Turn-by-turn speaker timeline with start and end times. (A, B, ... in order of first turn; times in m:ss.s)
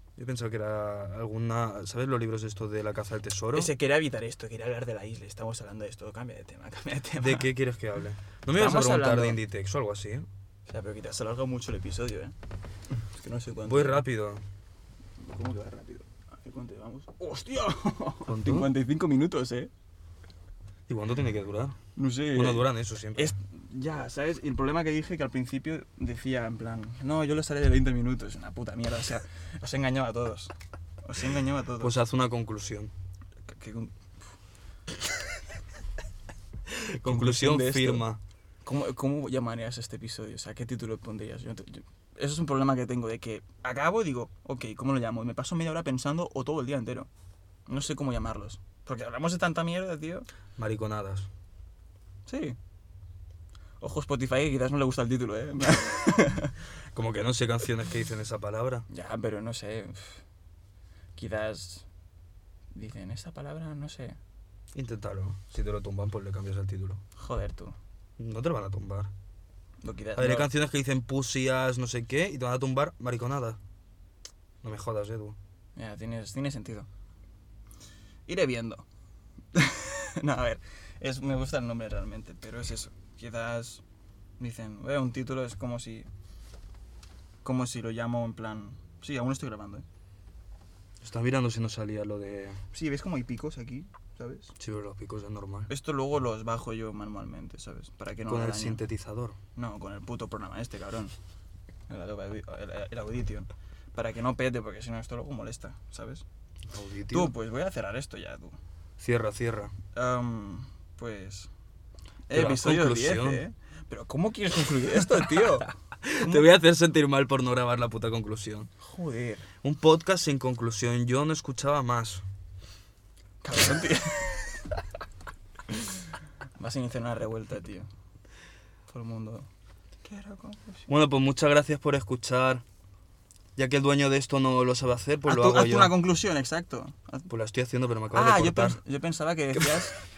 0:00.2-0:03.7 A
0:03.5-0:07.5 B
0:07.2-0:10.3 A
0:08.5-0:09.4 B
0:10.7-0:12.4 B
0:12.9-0:14.0 B
0:13.7-0:14.4 A
0:15.2-0:19.7 B
0:18.3-0:18.7 A
0:20.9-0:21.8 A
0:22.0-0:31.9 B
0:22.3-0:23.4 A
0:31.8-0:32.9 A
0:33.5-0:34.0 B
0:36.7-0:38.2 A
0:37.0-0:38.0 B
0:38.6-0:47.1 B
0:47.7-0:50.3 B
0:50.6-0:51.3 A
0:52.3-0:52.6 B
0:53.8-0:56.6 B
0:56.9-0:58.9 A
0:58.9-1:00.2 B
1:01.2-1:01.9 B
1:02.7-1:04.2 B
1:04.7-1:07.0 A
1:07.2-1:07.8 B
1:08.2-1:09.1 A
1:09.8-1:10.5 B
1:10.2-1:13.6 A
1:14.6-1:15.4 A
1:15.8-1:16.9 B
1:18.3-1:18.8 B
1:19.5-1:23.8 B
1:24.4-1:26.1 B
1:27.4-1:29.9 B
1:31.0-1:32.6 A
1:32.7-1:34.5 B
1:34.6-1:35.7 A
1:35.7-1:38.8 B
1:38.3-1:39.4 A
1:39.6-1:41.1 B
1:41.9-1:46.2 B
1:46.7-1:47.3 A
1:47.1-1:48.6 B
1:49.0-1:49.7 A
1:50.0-1:51.5 B
1:52.3-1:55.7 B
1:52.3-1:53.4 A
1:56.0-1:58.7 A
1:56.2-1:56.5 B
1:58.8-1:59.5 B
1:59.6-2:02.2 A
2:03.4-2:04.8 B
2:05.7-2:07.9 B
2:08.9-2:09.5 B
2:10.0-2:10.9 B
2:10.9-2:12.6 A
2:13.6-2:16.0 A
2:15.3-2:17.3 B
2:17.3-2:18.8 A
2:18.1-2:20.0 B